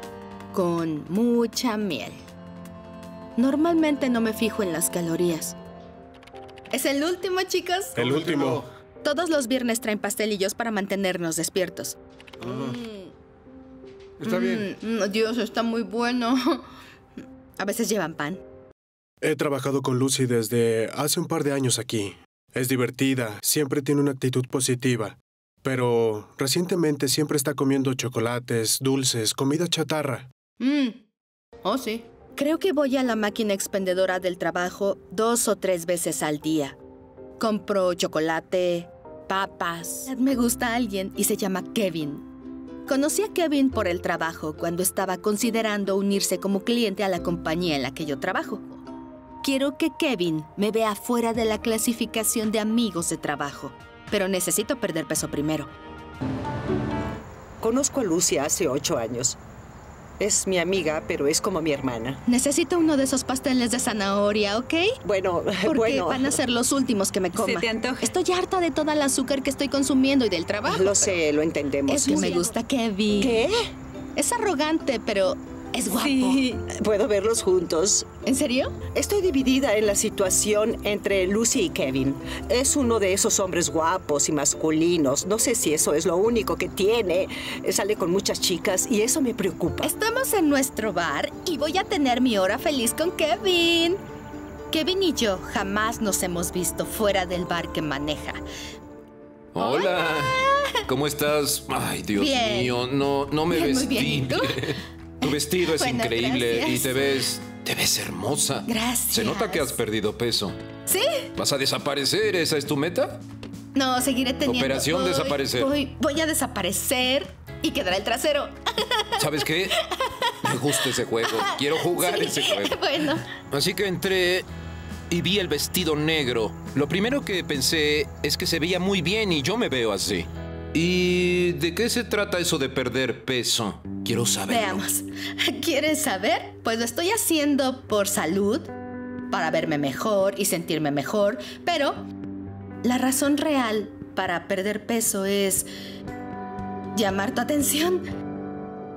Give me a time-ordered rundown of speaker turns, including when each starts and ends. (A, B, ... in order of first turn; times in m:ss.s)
0:00.5-0:02.2 A
0:03.4-0:05.6 A
0:06.7-0:08.0 A
0:08.0-0:08.6 B
0:08.0-0:08.6 C
0:09.0-0:13.1 A
0:12.4-0:12.7 B
0:14.2-0:14.6 C
0:14.2-0:16.6 A
0:17.6-0:18.4 A
0:19.2-0:30.3 B
0:30.6-0:31.0 A
0:31.6-0:36.8 A
0:37.4-0:42.3 A
0:42.8-0:48.8 A
0:49.4-0:55.7 A
0:57.6-0:59.4 D
1:00.2-1:02.2 D
1:02.3-1:05.0 A
1:05.0-1:06.3 D
1:05.6-1:11.2 A
1:07.3-1:08.1 D
1:10.7-1:12.5 D
1:11.9-1:13.5 A
1:13.2-1:13.6 D
1:14.2-1:16.4 A
1:15.9-1:18.1 D
1:18.2-1:18.7 A
1:18.9-1:29.9 D
1:29.8-1:34.0 A
1:34.7-1:38.4 A
1:39.5-1:50.6 C
1:39.6-1:40.8 A
1:42.2-1:42.8 A
1:43.5-1:47.0 A
1:48.6-1:49.8 A
1:50.9-1:51.2 A
1:51.4-1:53.2 C
1:53.7-2:03.3 A
1:54.4-1:55.7 C
1:59.2-1:59.8 C
2:00.4-2:02.8 C
2:03.4-2:04.5 C
2:05.1-2:14.8 C
2:14.5-2:18.7 A
2:19.3-2:22.0 A
2:22.8-2:25.7 A
2:26.9-2:28.0 A